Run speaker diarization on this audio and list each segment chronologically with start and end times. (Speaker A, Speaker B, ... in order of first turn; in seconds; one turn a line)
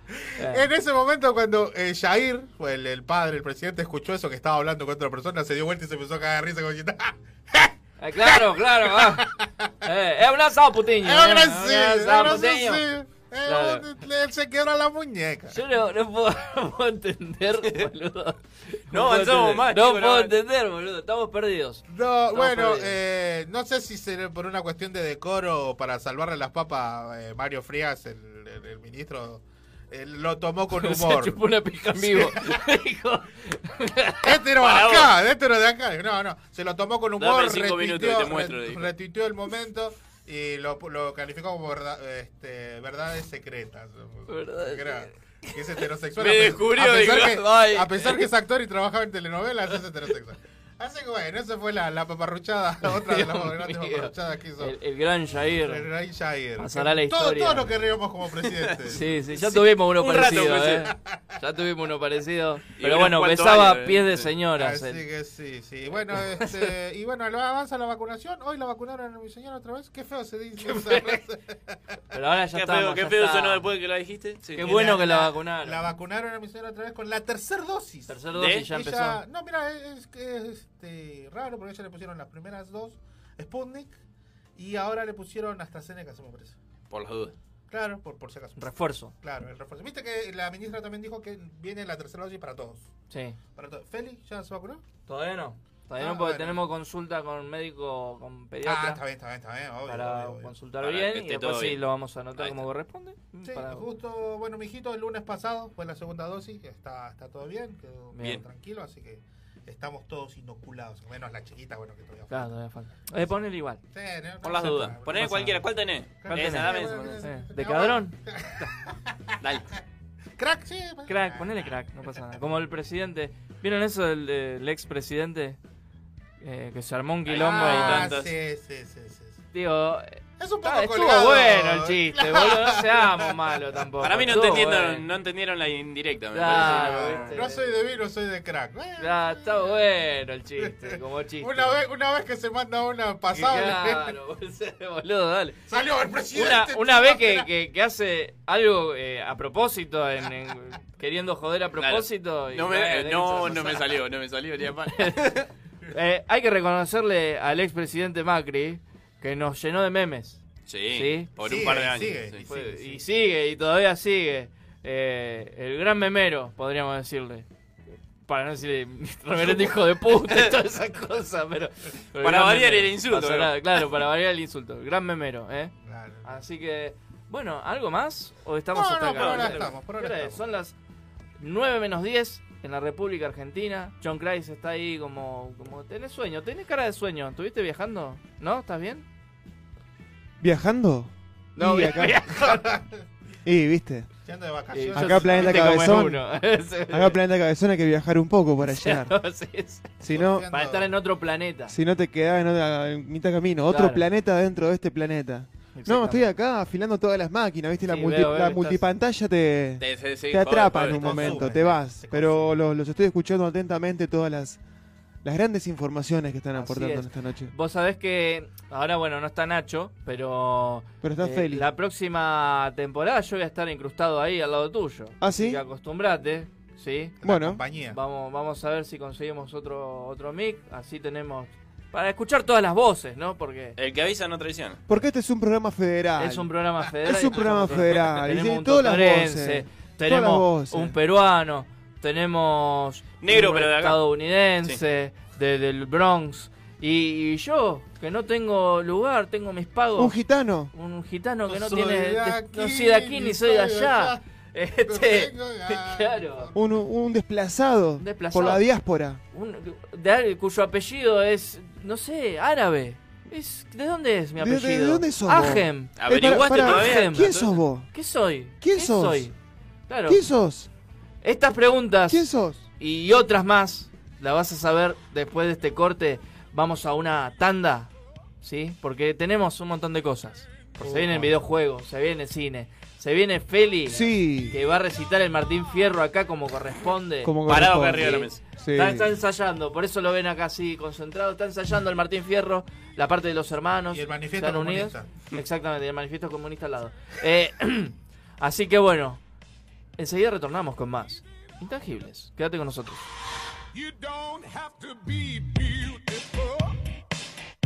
Speaker A: 0.2-7.7
Speaker B: 0.4-0.6
Speaker B: 8.0-9.2
Speaker A: 8.2-9.7
Speaker B: 9.8-12.8
Speaker A: 11.0-15.6
Speaker B: 13.4-13.9
Speaker B: 15.5-22.9
Speaker C: 17.6-17.9
Speaker C: 18.9-20.3
Speaker A: 21.9-31.4
Speaker B: 30.8-34.2
Speaker A: 31.9-32.6
Speaker A: 34.2-54.7
Speaker C: 34.6-35.1
Speaker C: 37.2-38.9
Speaker B: 44.3-45.1
Speaker C: 46.2-48.2
Speaker B: 52.8-55.8
Speaker A: 55.6-59.0
Speaker B: 56.6-57.8
Speaker B: 58.9-65.0
Speaker C: 59.3-60.9
Speaker C: 62.8-64.3
Speaker A: 64.5-71.5
Speaker B: 70.6-71.2
Speaker B: 72.1-73.7
Speaker C: 72.5-74.6
Speaker B: 74.5-75.9
Speaker A: 74.6-84.0
Speaker B: 78.1-79.2
Speaker C: 78.3-78.7
Speaker A: 84.5-86.5
Speaker C: 86.9-87.3
Speaker A: 87.7-92.9
Speaker B: 88.6-89.1
Speaker B: 93.1-93.4
Speaker A: 93.5-94.8
Speaker B: 95.1-99.0
Speaker A: 96.0-96.6
Speaker A: 98.6-100.5
Speaker B: 99.9-103.8
Speaker C: 100.8-101.8
Speaker C: 102.4-102.6
Speaker A: 103.4-112.5
Speaker B: 112.3-113.8
Speaker A: 113.9-115.5
Speaker C: 114.4-117.2
Speaker B: 115.0-115.6
Speaker A: 116.2-119.2
Speaker B: 116.3-118.7
Speaker A: 120.4-121.7
Speaker B: 121.1-125.6
Speaker B: 126.4-128.1
Speaker C: 127.3-128.3
Speaker A: 127.3-129.4
Speaker B: 129.5-135.1
Speaker A: 130.4-133.7
Speaker C: 134.0-137.4
Speaker B: 136.3-137.7
Speaker A: 136.4-139.8
Speaker B: 139.0-141.8
Speaker A: 141.4-144.1
Speaker B: 143.3-145.6
Speaker A: 145.7-147.5
Speaker B: 146.3-153.9
Speaker C: 151.8-155.5
Speaker B: 155.0-155.3
Speaker B: 155.9-161.3
Speaker C: 160.7-162.4
Speaker A: 161.4-163.0
Speaker B: 162.5-167.4
Speaker B: 168.3-175.7
Speaker C: 172.2-173.5
Speaker A: 175.8-176.4
Speaker B: 176.2-180.7
Speaker A: 178.7-180.4
Speaker C: 179.1-179.7
Speaker B: 181.4-189.0
Speaker D: 190.4-192.2
Speaker B: 191.6-192.6
Speaker A: 192.3-192.9
Speaker D: 193.4-194.1
Speaker A: 194.2-195.9
Speaker B: 194.7-197.2
Speaker D: 194.9-196.2
Speaker D: 196.9-199.1
Speaker B: 198.6-199.9
Speaker D: 200.0-200.4
Speaker A: 200.1-200.9
Speaker B: 200.5-201.7
Speaker D: 201.7-214.6
Speaker B: 203.7-204.0
Speaker B: 205.7-206.3
Speaker B: 207.9-208.8
Speaker C: 209.8-211.4
Speaker A: 210.8-212.6
Speaker D: 215.2-217.5
Speaker B: 216.5-227.1
Speaker D: 221.0-221.7
Speaker D: 225.2-225.6
Speaker A: 227.2-228.0
Speaker D: 227.2-227.6
Speaker B: 227.9-233.8
Speaker C: 233.8-234.8
Speaker D: 234.9-236.5
Speaker B: 236.2-250.2
Speaker D: 237.0-240.9
Speaker C: 243.2-244.0
Speaker D: 250.0-250.7
Speaker B: 250.7-256.5
Speaker A: 251.5-254.2
Speaker A: 254.9-256.6
Speaker D: 256.5-259.2
Speaker B: 258.0-258.6
Speaker B: 259.3-267.4
Speaker D: 264.4-267.9
Speaker C: 266.0-267.6
Speaker B: 267.9-269.3
Speaker D: 268.6-269.3
Speaker B: 269.9-270.2
Speaker D: 270.1-270.7
Speaker B: 271.2-272.3
Speaker D: 272.1-272.6
Speaker B: 272.8-287.3
Speaker D: 280.8-281.2
Speaker D: 283.9-284.6
Speaker D: 287.2-289.1
Speaker C: 287.5-288.4
Speaker B: 288.0-299.2
Speaker A: 293.9-295.1
Speaker B: 300.0-303.1
Speaker E: 303.7-306.8